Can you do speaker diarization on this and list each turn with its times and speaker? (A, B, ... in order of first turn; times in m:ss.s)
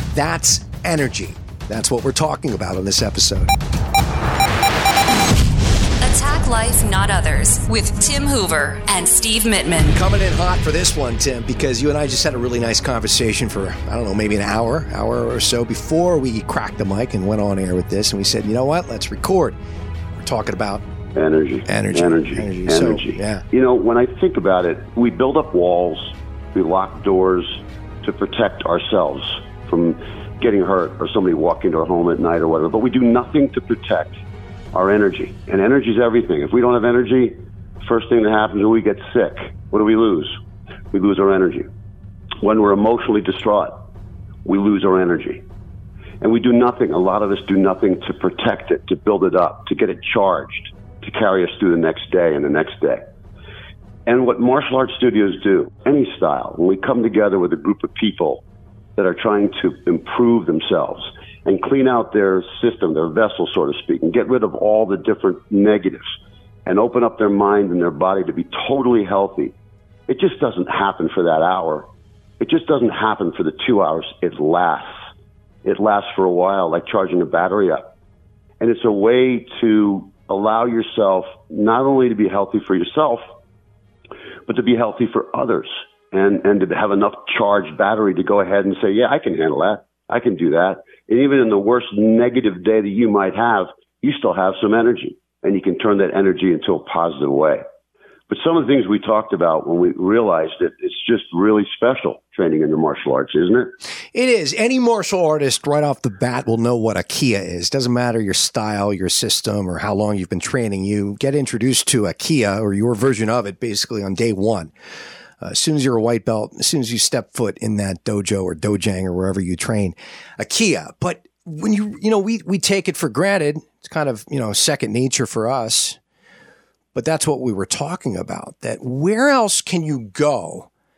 0:00.1-0:03.5 A
0:06.0-0:10.0 B
0:09.9-0:19.6 A
0:20.2-0:20.8 A
0:21.2-0:34.2 C
0:21.7-0:23.4 A
0:34.7-0:40.3 C
0:40.9-0:41.7 C
0:42.4-0:43.8 C
0:44.4-0:45.4 C
0:46.2-0:53.0 C
0:54.1-0:58.4 C
0:59.0-1:06.1 C
1:06.6-1:09.5 C
1:10.1-1:11.9 C
1:12.4-1:14.9 C
1:15.6-1:17.8 C
1:18.6-1:23.2 C
1:24.5-1:37.6 C
1:38.3-1:43.7 C
1:44.1-1:54.7 A
1:55.4-2:06.0 A
2:07.0-2:10.7 A